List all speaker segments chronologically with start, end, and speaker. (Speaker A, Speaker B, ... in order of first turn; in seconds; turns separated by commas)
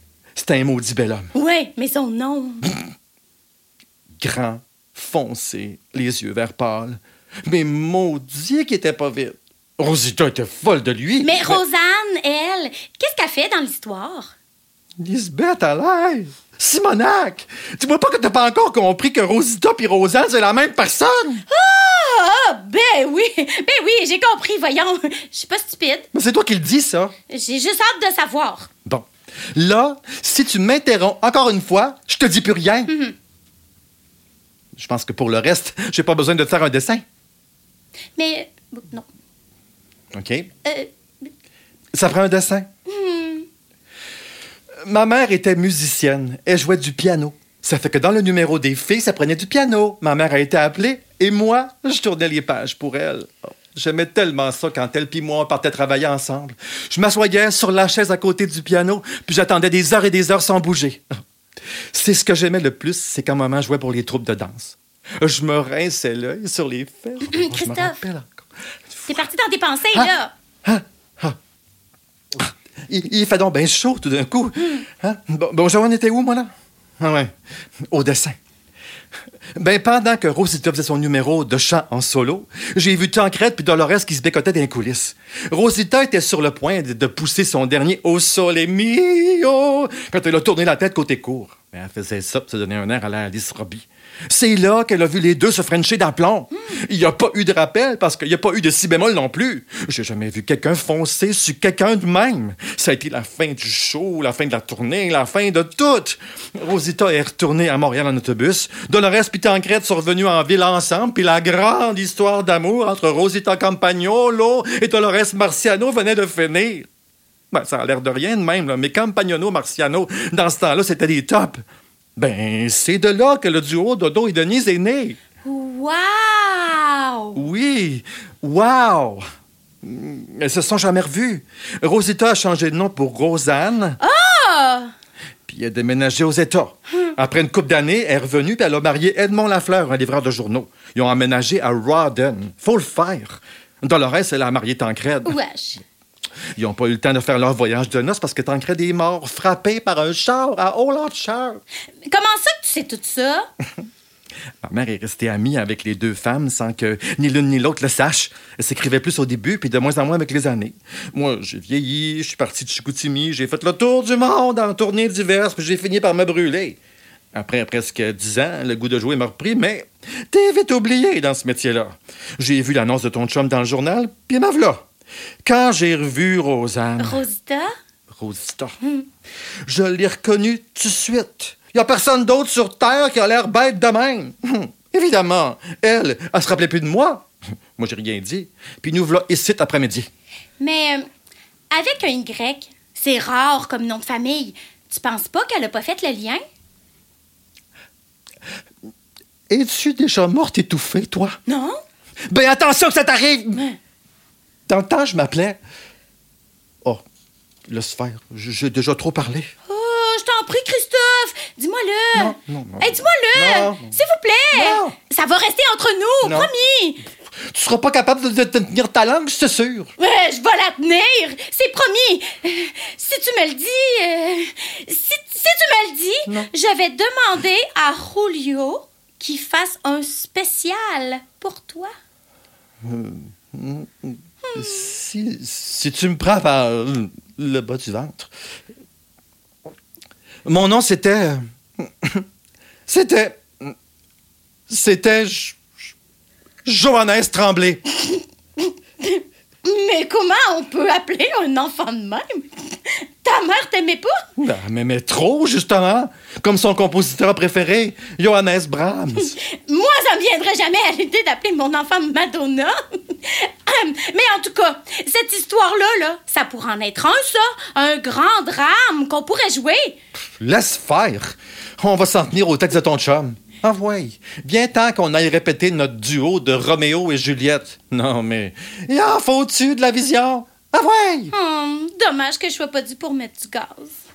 Speaker A: 0.3-1.3, Speaker B: 1.3-2.7, Speaker A: 4.2-11.6, Speaker B: 11.2-14.3, Speaker A: 15.0-21.4, Speaker B: 21.5-26.1, Speaker A: 26.1-27.1, Speaker B: 27.3-28.7, Speaker A: 28.8-32.9, Speaker B: 32.9-33.1, Speaker A: 34.8-37.0, Speaker B: 38.2-39.1, Speaker A: 40.1-40.5, Speaker B: 40.6-40.9, Speaker A: 41.9-42.7, Speaker B: 42.9-43.5, Speaker A: 44.8-61.0, Speaker A: 61.9-69.1, Speaker B: 67.2-68.0, Speaker B: 69.1-70.3, Speaker A: 70.6-71.4, Speaker A: 72.3-77.3, Speaker A: 77.9-78.3, Speaker A: 79.5-116.9, Speaker A: 117.5-121.6, Speaker A: 122.2-125.2, Speaker B: 125.4-127.4, Speaker A: 127.3-129.2, Speaker A: 129.8-134.0, Speaker B: 134.0-134.9, Speaker A: 135.5-145.4, Speaker B: 145.2-145.8, Speaker A: 146.6-151.6, Speaker B: 152.1-153.5, Speaker A: 154.6-166.8, Speaker A: 167.3-174.8, Speaker A: 175.4-177.2, Speaker B: 177.0-177.7, Speaker A: 178.1-178.8, Speaker A: 179.7-190.1, Speaker B: 190.6-191.1, Speaker B: 191.7-196.4, Speaker A: 199.5-201.4, Speaker B: 201.5-201.8, Speaker A: 202.3-203.6, Speaker A: 204.7-205.6, Speaker A: 207.7-209.5, Speaker B: 209.7-217.0, Speaker A: 212.1-214.0, Speaker A: 214.5-214.9, Speaker A: 216.2-216.5, Speaker A: 217.5-219.9, Speaker B: 220.0-231.9, Speaker A: 232.8-238.3, Speaker B: 234.4-234.8, Speaker A: 240.4-242.2, Speaker A: 242.9-243.7, Speaker A: 244.7-245.6, Speaker A: 246.6-247.8, Speaker B: 248.0-254.2, Speaker A: 254.4-259.3, Speaker B: 259.2-270.0, Speaker A: 270.4-281.3, Speaker B: 281.3-284.0